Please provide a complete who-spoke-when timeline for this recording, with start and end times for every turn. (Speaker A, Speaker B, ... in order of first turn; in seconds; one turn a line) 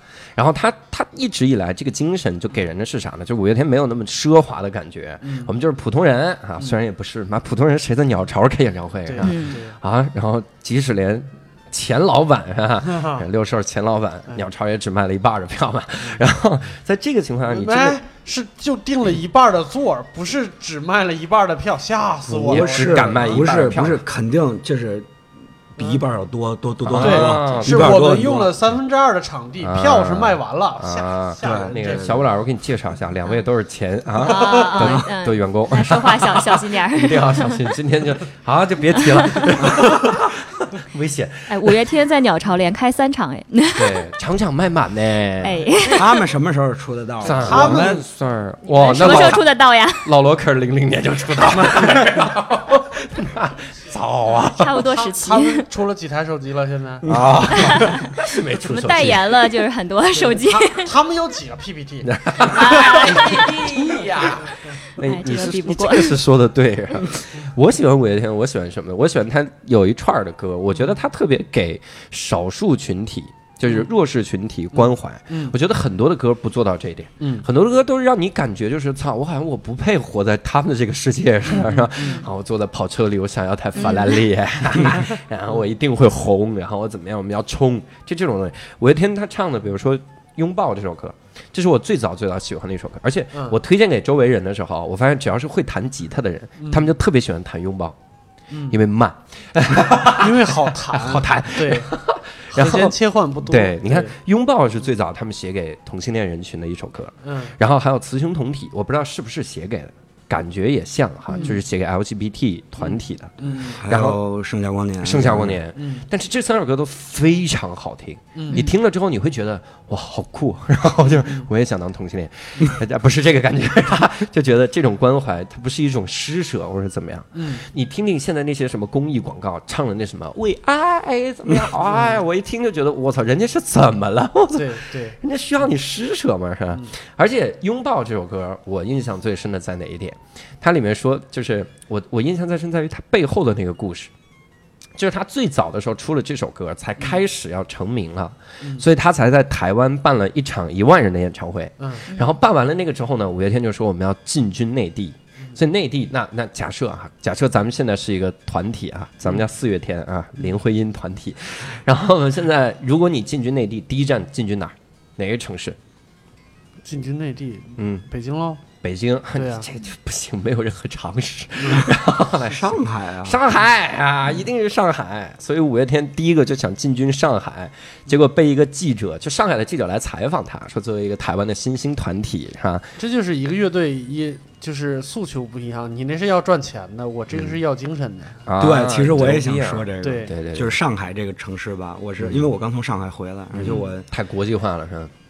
Speaker A: 0.4-18.0
Speaker B: 5.2-5.5
Speaker B: 9.1-9.8
Speaker C: 9.2-9.6
Speaker B: 12.9-13.2
Speaker B: 17.5-23.5
Speaker A: 22.3-24.0
Speaker D: 22.4-25.1
Speaker D: 25.8-28.5
Speaker A: 26.9-28.1
Speaker B: 27.0-32.2
Speaker A: 29.6-41.8
Speaker D: 31.4-32.2
Speaker C: 34.2-37.6
Speaker B: 34.2-34.8
Speaker C: 39.0-39.7
Speaker C: 41.5-44.0
Speaker A: 43.8-45.6
Speaker C: 45.4-46.2
Speaker D: 45.9-48.0
Speaker A: 47.2-49.5
Speaker B: 47.3-48.0
Speaker C: 48.8-50.1
Speaker A: 50.0-54.8
Speaker B: 51.6-52.0
Speaker C: 54.4-55.7
Speaker B: 54.7-57.0
Speaker D: 57.0-57.9
Speaker A: 57.1-59.4
Speaker C: 57.5-60.9
Speaker B: 60.8-64.5
Speaker A: 62.0-98.0
Speaker C: 62.5-63.6
Speaker C: 65.0-66.2
Speaker B: 73.6-73.9
Speaker B: 74.7-75.5
Speaker B: 77.2-77.5
Speaker B: 81.5-82.3
Speaker C: 82.0-82.3
Speaker C: 83.8-84.2
Speaker B: 96.6-96.9
Speaker B: 98.5-98.8
Speaker A: 98.7-113.3
Speaker B: 100.1-101.9
Speaker B: 102.5-104.1
Speaker B: 107.2-107.5
Speaker C: 111.3-111.6
Speaker B: 112.8-113.9
Speaker D: 113.7-115.6
Speaker A: 113.9-114.2
Speaker A: 115.0-144.1
Speaker B: 115.8-116.0
Speaker B: 118.4-118.6
Speaker B: 127.3-127.6
Speaker B: 131.8-132.2
Speaker B: 134.6-135.2
Speaker A: 145.0-165.8
Speaker B: 147.0-147.2
Speaker B: 151.8-152.1
Speaker B: 166.8-168.6
Speaker A: 167.8-168.1
Speaker A: 168.8-182.9
Speaker B: 169.3-169.7
Speaker B: 171.6-171.9
Speaker D: 172.5-173.4
Speaker B: 183.0-188.4
Speaker A: 187.3-187.6
Speaker A: 188.5-190.8
Speaker D: 188.6-194.1
Speaker B: 190.0-190.3
Speaker A: 192.2-192.5
Speaker A: 193.5-195.1
Speaker B: 193.6-193.9